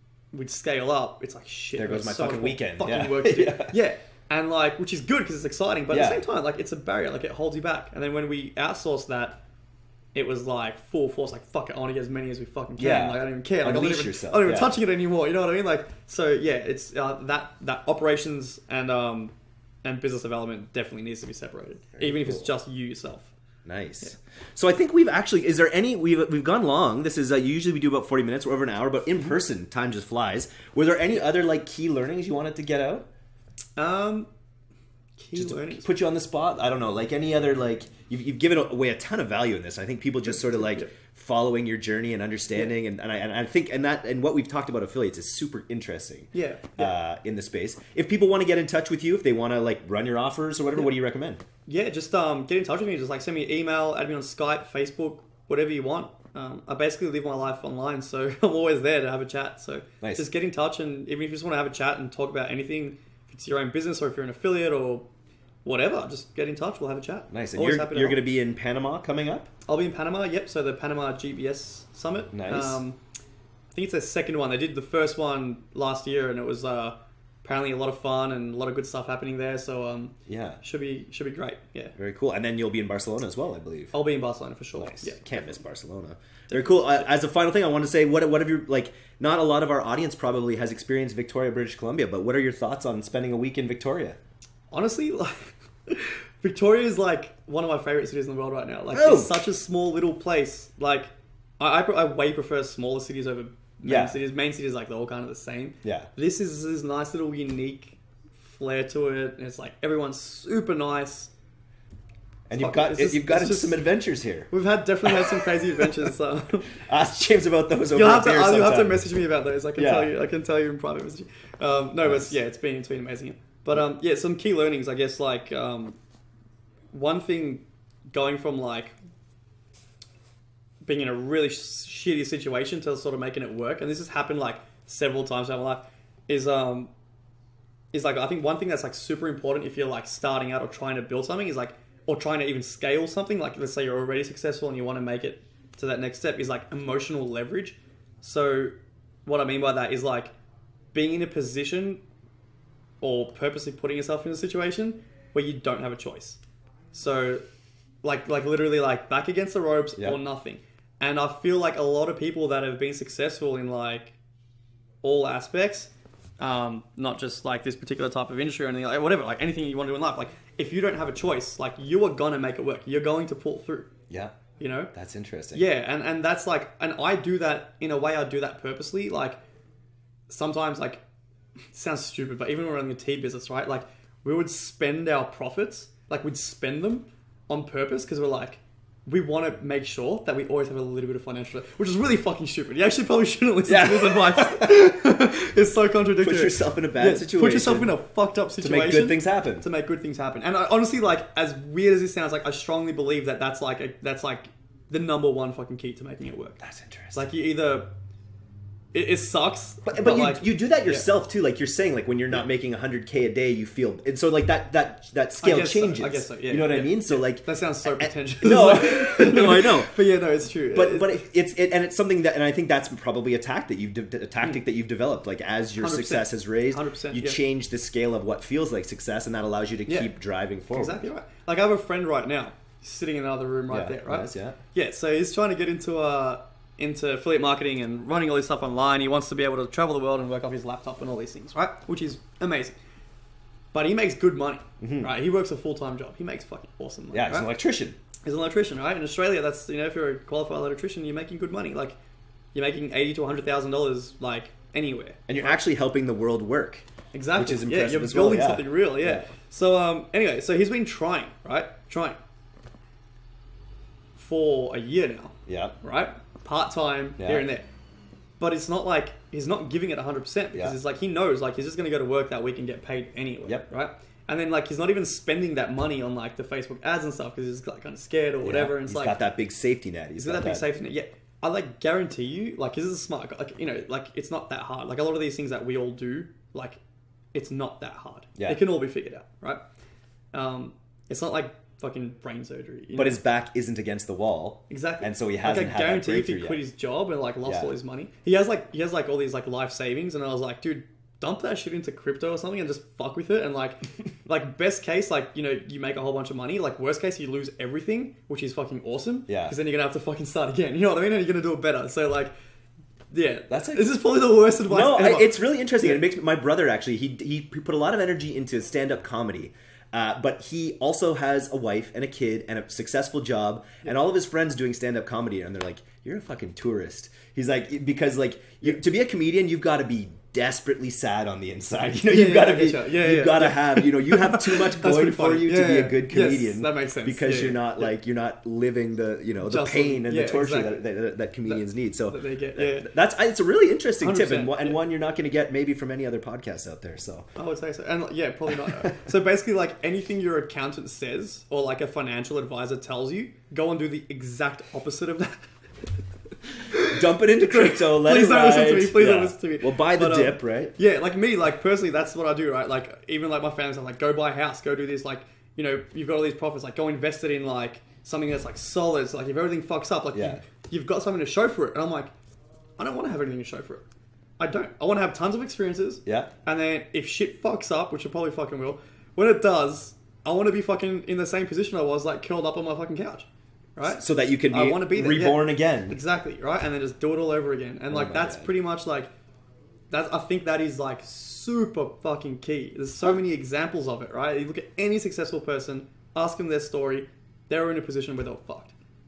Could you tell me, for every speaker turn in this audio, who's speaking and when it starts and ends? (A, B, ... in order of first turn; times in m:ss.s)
0:00.3-0:09.4 A
0:01.8-0:03.8 B
0:05.9-0:06.2 B
0:10.1-0:19.3 A
0:12.8-0:14.7 B
0:19.8-0:23.3 A
0:22.0-0:22.5 B
0:23.6-0:33.0 B
0:33.8-0:34.3 A
0:35.2-0:35.8 A
0:35.3-0:51.4 B
0:40.6-0:40.9 A
0:46.3-0:46.9 A
0:51.6-1:05.1 A
1:00.0-1:00.2 B
1:05.6-1:08.2 A
1:07.3-1:09.5 B
1:09.7-1:13.0 A
1:12.3-1:12.8 B
1:13.7-1:21.9 A
1:20.3-1:20.6 B
1:22.0-1:23.9 B
1:23.9-1:25.6 A
1:24.8-1:34.2 B
1:26.5-1:26.9 A
1:34.7-1:51.3 A
1:38.9-1:39.4 B
1:43.8-1:44.2 B
1:45.8-1:46.1 B
1:52.5-1:54.5 B
1:52.6-1:53.8 A
1:54.5-1:56.8 A
1:55.0-1:56.1 B
1:56.7-1:59.0 B
1:57.9-2:06.0 A
1:59.8-2:00.1 B
2:02.0-2:02.3 B
2:06.9-2:08.9 A
2:10.8-2:16.9 A
2:17.9-2:28.7 A
2:29.2-2:30.3 A
2:30.9-2:32.0 A
2:33.0-2:36.4 A
2:36.9-2:37.4 A
2:38.0-2:44.2 A
2:45.0-2:53.9 A
2:54.1-2:54.4 B
2:54.6-2:54.9 A
2:54.9-2:55.7 B
2:55.5-2:59.4 A
3:00.3-3:01.0 A
3:01.7-3:26.6 A
3:13.7-3:14.9 B
3:16.2-3:17.9 B
3:18.6-3:19.6 B
3:26.6-3:27.2 B
3:27.1-3:27.9 A
3:28.9-3:31.1 A
3:29.8-3:39.9 B
3:35.4-3:41.2 A
3:40.7-3:51.1 B
3:45.8-3:47.4 A
3:50.7-4:02.7 A
3:53.7-3:54.6 B
4:03.7-4:07.5 A
4:04.8-4:05.1 B
4:07.1-4:08.0 B
4:08.2-4:12.0 A
4:12.5-4:15.6 A
4:15.3-4:19.2 B
4:17.1-4:22.2 A
4:24.2-4:27.7 A
4:25.5-4:25.8 B
4:27.2-4:27.4 B
4:28.4-4:39.2 A
4:38.4-4:40.6 B
4:40.2-4:46.8 A
4:47.3-4:49.6 A
4:50.3-4:53.2 A
4:52.9-4:56.6 B
4:54.7-5:12.3 A
4:57.4-4:57.7 B
5:09.3-5:09.6 B
5:13.1-5:16.0 A
5:13.5-5:13.9 B
5:14.6-5:47.3 B
5:32.0-5:37.8 A
5:39.4-5:40.8 A
5:41.5-5:42.9 A
5:44.0-5:44.8 A
5:47.4-5:55.5 A
5:48.5-5:49.0 B
5:56.5-6:12.1 A
5:56.7-6:00.7 B
6:10.1-6:10.4 B
6:12.8-6:13.8 A
6:14.4-6:29.1 A
6:16.0-6:16.3 B
6:23.8-6:26.0 B
6:27.9-6:28.5 B
6:29.9-6:38.7 A